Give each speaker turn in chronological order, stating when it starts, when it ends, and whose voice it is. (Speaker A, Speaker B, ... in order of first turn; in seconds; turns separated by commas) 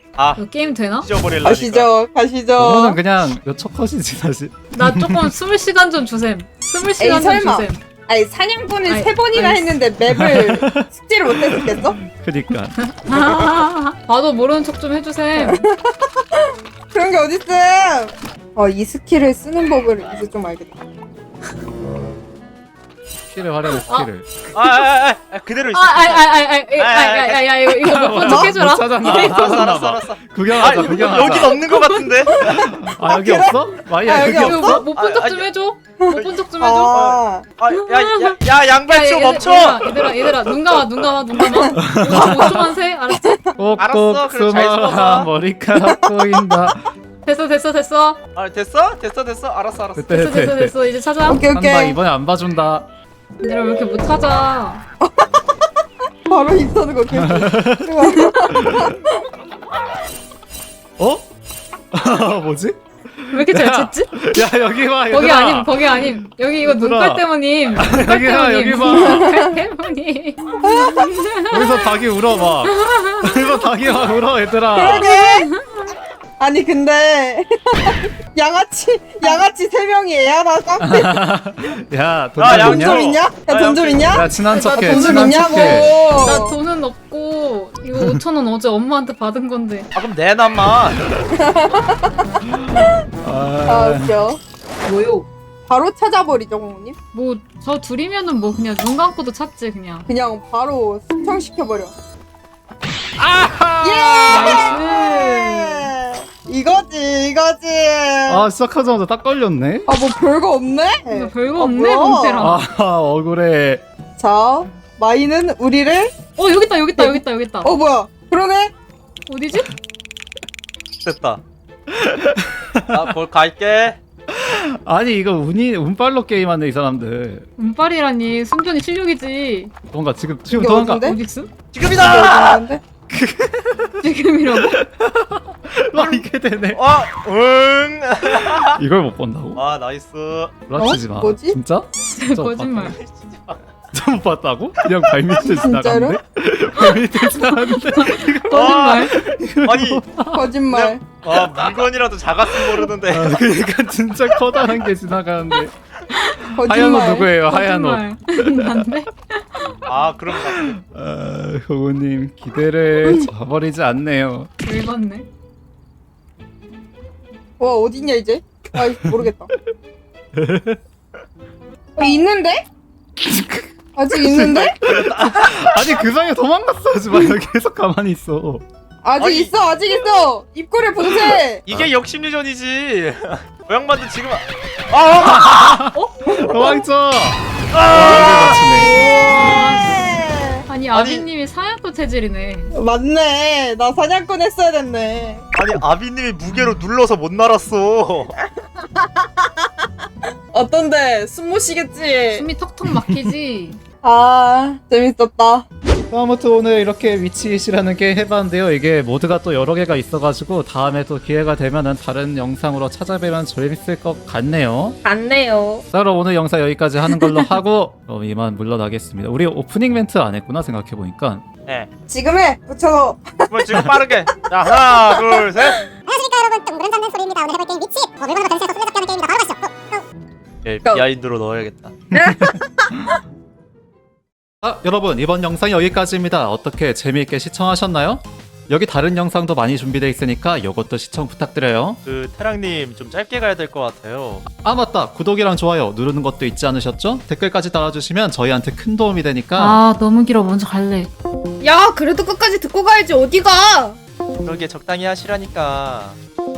Speaker A: 0.2-1.9, Speaker B: 0.3-1.1, Speaker C: 1.4-3.0, Speaker D: 2.6-5.3, Speaker B: 4.7-7.8, Speaker C: 7.0-12.0, Speaker B: 8.9-9.8, Speaker D: 10.1-12.8, Speaker B: 12.8-15.7, Speaker C: 15.3-20.8, Speaker D: 23.3-24.3, Speaker A: 24.5-27.9, Speaker B: 25.7-29.6, Speaker D: 27.9-31.6, Speaker C: 28.2-28.6, Speaker A: 29.0-32.4, Speaker C: 32.3-34.9, Speaker D: 32.4-34.9, Speaker B: 34.4-36.9, Speaker A: 34.9-35.5, Speaker C: 36.0-37.5, Speaker A: 36.9-40.3, Speaker B: 37.8-38.0, Speaker B: 38.9-43.2, Speaker D: 41.7-42.6, Speaker C: 43.1-43.5, Speaker D: 43.6-46.8, Speaker A: 43.8-45.3, Speaker C: 45.8-46.0, Speaker B: 47.2-48.2, Speaker A: 48.3-50.1, Speaker D: 50.0-50.7, Speaker B: 50.1-51.4, Speaker C: 51.3-52.0, Speaker D: 51.5-52.9, Speaker B: 53.4-54.8, Speaker C: 55.0-55.5, Speaker C: 56.3-59.0, Speaker D: 57.1-59.0, Speaker D: 61.0-61.2, Speaker D: 61.9-67.2, Speaker B: 63.3-64.2, Speaker B: 65.1-71.9, Speaker D: 67.8-69.4, Speaker C: 68.9-69.5, Speaker C: 70.6-71.3, Speaker D: 71.5-75.1, Speaker B: 72.7-73.5, Speaker C: 74.7-75.5, Speaker B: 74.9-75.3, Speaker C: 76.4-81.2, Speaker D: 80.8-83.0, Speaker A: 82.4-84.3, Speaker C: 82.5-86.6, Speaker D: 84.1-85.9, Speaker B: 84.4-89.9, Speaker A: 89.9-91.0, Speaker D: 91.0-91.3, Speaker C: 91.3-92.1, Speaker B: 92.1-92.4, Speaker D: 92.4-94.1, Speaker C: 93.7-94.4, Speaker B: 94.8-95.3, Speaker C: 95.7-97.0, Speaker B: 97.1-100.0, Speaker C: 100.1-101.9, Speaker D: 103.2-104.7, Speaker C: 103.8-108.5, Speaker B: 104.3-105.9, Speaker D: 108.3-109.9, Speaker C: 109.9-112.4, Speaker B: 111.1-112.6, Speaker D: 112.3-113.8, Speaker C: 114.2-116.1, Speaker B: 116.3-117.7, Speaker C: 117.0-118.7, Speaker B: 119.3-119.7, Speaker A: 121.0-121.4, Speaker D: 121.9-123.0, Speaker A: 122.9-124.0, Speaker D: 124.3-127.5, Speaker B: 127.6-129.7, Speaker D: 129.9-131.1, Speaker C: 130.5-131.2, Speaker B: 131.0-131.5, Speaker A: 131.7-132.6, Speaker C: 131.8-132.8, Speaker D: 133.1-136.8, Speaker B: 134.0-134.8, Speaker A: 136.7-138.8, Speaker D: 138.7-139.6, Speaker A: 139.5-140.6, Speaker D: 140.7-142.9, Speaker C: 140.8-141.6, Speaker B: 142.0-142.9, Speaker A: 142.7-143.7, Speaker D: 143.9-150.5, Speaker C: 145.4-146.2, Speaker B: 147.1-149.1, Speaker A: 148.5-150.0, Speaker C: 150.3-151.0, Speaker A: 150.7-153.4, Speaker D: 152.7-155.7, Speaker D: 156.5-158.7, Speaker C: 156.5-157.3, Speaker B: 157.4-159.7, Speaker A: 159.8-160.8, Speaker D: 160.5-164.5, Speaker B: 164.6-165.2, Speaker C: 167.6-169.5, Speaker D: 170.3-170.8, Speaker C: 172.0-172.7, Speaker D: 173.2-173.7, Speaker C: 173.9-174.8, Speaker A: 174.3-176.0, Speaker D: 174.4-178.6, Speaker C: 179.0-181.6, Speaker A: 179.2-179.5, Speaker A: 181.7-185.9, Speaker D: 185.2-189.0, Speaker B: 185.9-186.6, Speaker C: 186.3-186.8, Speaker A: 187.7-188.6, Speaker C: 188.1-190.7, Speaker B: 188.9-190.1, Speaker B: 190.7-192.7, Speaker A: 190.9-191.2, Speaker C: 192.7-195.4, Speaker A: 195.5-198.3, Speaker C: 198.8-199.5, Speaker C: 200.5-202.4, Speaker B: 202.3-203.8, Speaker D: 202.9-203.3, Speaker C: 204.0-205.6, Speaker D: 206.1-215.0, Speaker C: 215.0-215.8, Speaker D: 215.9-221.4, Speaker C: 222.1-224.0, Speaker A: 223.5-225.8, Speaker C: 224.7-225.7, Speaker E: 226.1-230.0, Speaker A: 230.6-231.9, Speaker C: 232.1-232.9, Speaker D: 232.1-233.1, Speaker D: 234.6-242.0, Speaker A: 242.1-244.4, Speaker D: 244.5-249.8, Speaker B: 249.6-251.1, Speaker C: 251.6-254.0, Speaker A: 254.4-256.2